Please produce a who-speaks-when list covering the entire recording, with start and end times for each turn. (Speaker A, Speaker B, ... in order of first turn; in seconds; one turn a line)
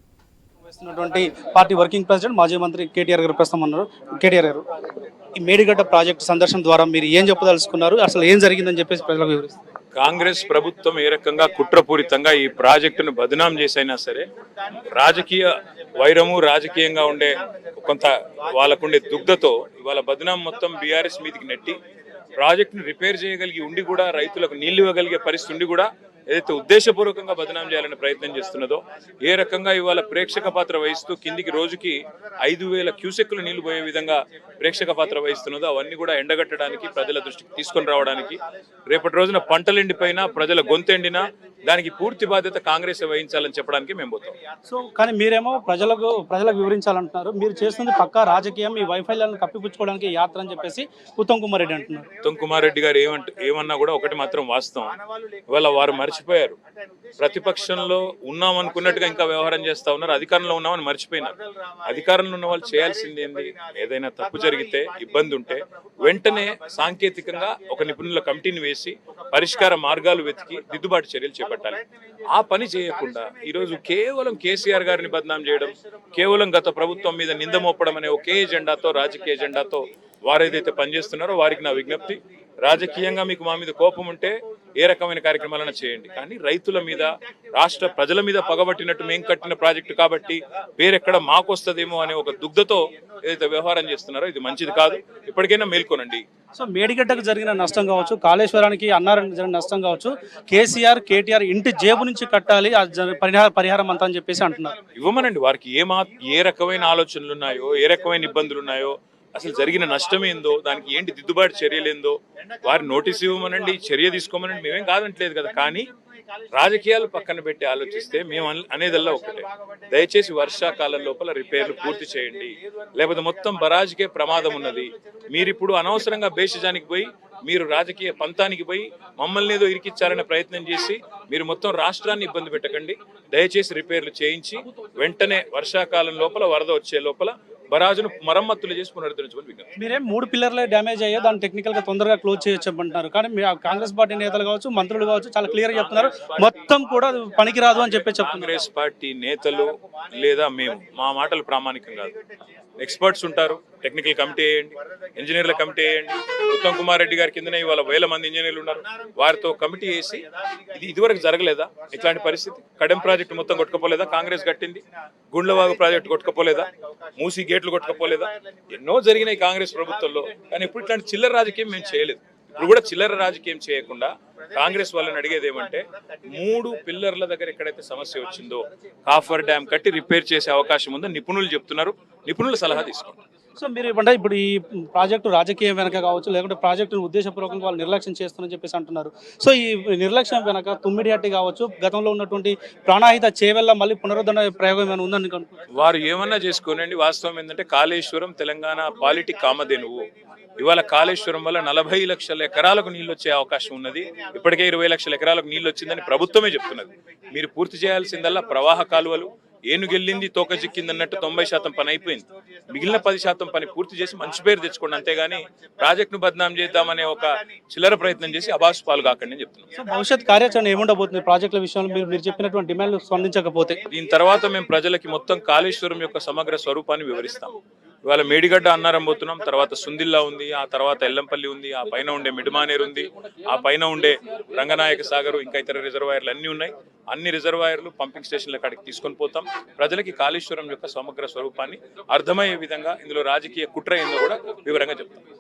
Speaker A: 0.7-4.7
Speaker A: 5.3-9.6
Speaker B: 9.9-14.3
Speaker B: 14.9-21.8
Speaker B: 22.4-44.4
Speaker A: 44.7-52.1
Speaker B: 52.2-55.0
Speaker B: 55.5-56.6
Speaker B: 57.2-96.2
Speaker A: 96.5-104.8
Speaker B: 104.9-115.9
Speaker B: 116.5-139.7
Speaker A: 139.8-148.5
Speaker B: 145.4-146.8
Speaker B: 147.4-152.1
Speaker B: 152.8-183.2
Speaker A: 183.6-195.6
Speaker B: 195.7-200.1
Speaker B: 200.6-219.7
Speaker A: 219.8-223.8
Speaker B: 223.9-245.2